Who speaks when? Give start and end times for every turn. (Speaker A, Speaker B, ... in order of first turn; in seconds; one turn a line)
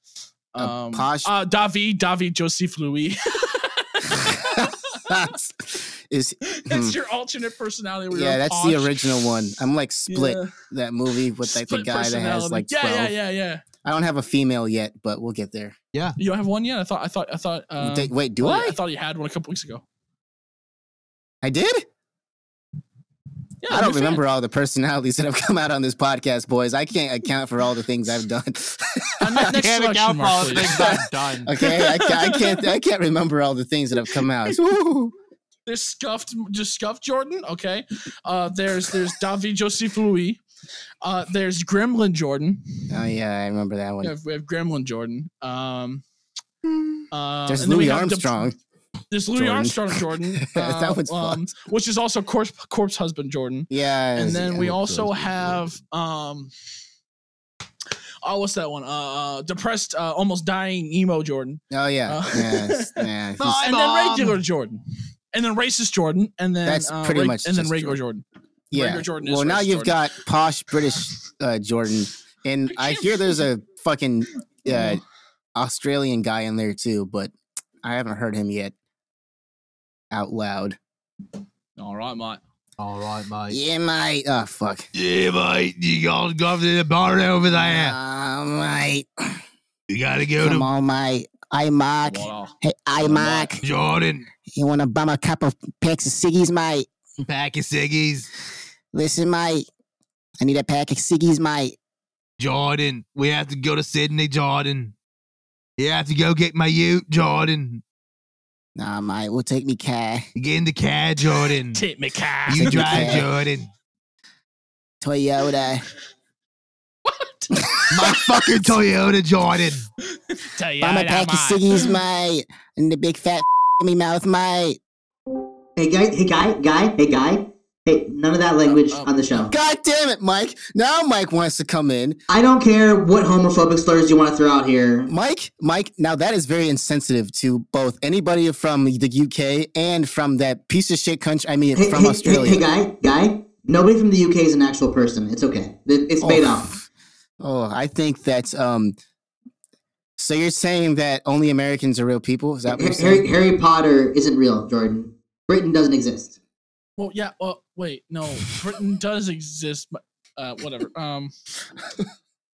Speaker A: 0.5-5.2
Speaker B: 0.6-1.3
Speaker B: 4.1-7.0
Speaker A: 6.5-9.4
Speaker B: 8.1-13.1
Speaker A: 10.1-10.5
Speaker A: 11.4-13.6
Speaker B: 13.8-15.7
Speaker A: 16.2-19.8
Speaker B: 17.8-18.8
Speaker B: 21.4-21.9
Speaker A: 23.6-24.2
Speaker B: 23.7-29.5
Speaker A: 29.2-31.0
Speaker C: 29.4-31.5
Speaker B: 30.6-35.1
Speaker A: 31.6-32.6
Speaker A: 35.6-40.4
Speaker A: 41.0-42.9
Speaker B: 42.9-44.1
Speaker A: 44.0-46.0
Speaker A: 47.1-48.5
Speaker B: 47.5-48.5
Speaker A: 49.1-56.5
Speaker B: 49.3-51.4
Speaker B: 53.7-54.8
Speaker C: 54.6-55.6
Speaker A: 58.2-63.0
Speaker B: 61.7-63.7
Speaker C: 63.4-64.4
Speaker A: 63.6-64.8
Speaker A: 65.3-70.0
Speaker B: 66.6-68.0
Speaker B: 68.7-75.0
Speaker A: 72.7-73.4
Speaker A: 74.7-75.0
Speaker B: 75.5-77.3
Speaker B: 77.8-78.7
Speaker B: 80.1-80.8
Speaker A: 81.8-82.4
Speaker C: 82.8-83.6
Speaker B: 83.5-84.9
Speaker C: 84.9-88.0
Speaker B: 87.5-89.4
Speaker C: 89.9-90.7
Speaker B: 90.4-93.6
Speaker A: 92.0-92.5
Speaker C: 93.1-94.3
Speaker A: 93.2-93.5
Speaker B: 94.5-96.9
Speaker C: 97.2-98.3
Speaker B: 98.9-99.6
Speaker B: 100.4-101.8
Speaker C: 102.4-104.9
Speaker C: 105.8-107.8
Speaker B: 108.8-110.3
Speaker C: 110.3-111.8
Speaker A: 111.7-113.2
Speaker C: 112.5-113.7
Speaker B: 112.5-113.3
Speaker B: 115.0-115.8
Speaker A: 117.0-117.5
Speaker B: 117.6-118.1
Speaker C: 117.9-119.8
Speaker A: 120.2-121.9
Speaker B: 120.8-124.8
Speaker D: 125.8-129.5
Speaker A: 128.7-129.1
Speaker B: 129.4-132.2
Speaker D: 132.3-135.1
Speaker B: 135.1-142.6
Speaker D: 141.8-146.7
Speaker B: 146.2-146.8
Speaker B: 147.4-148.9
Speaker B: 150.2-153.3
Speaker D: 152.7-156.3
Speaker A: 157.0-161.3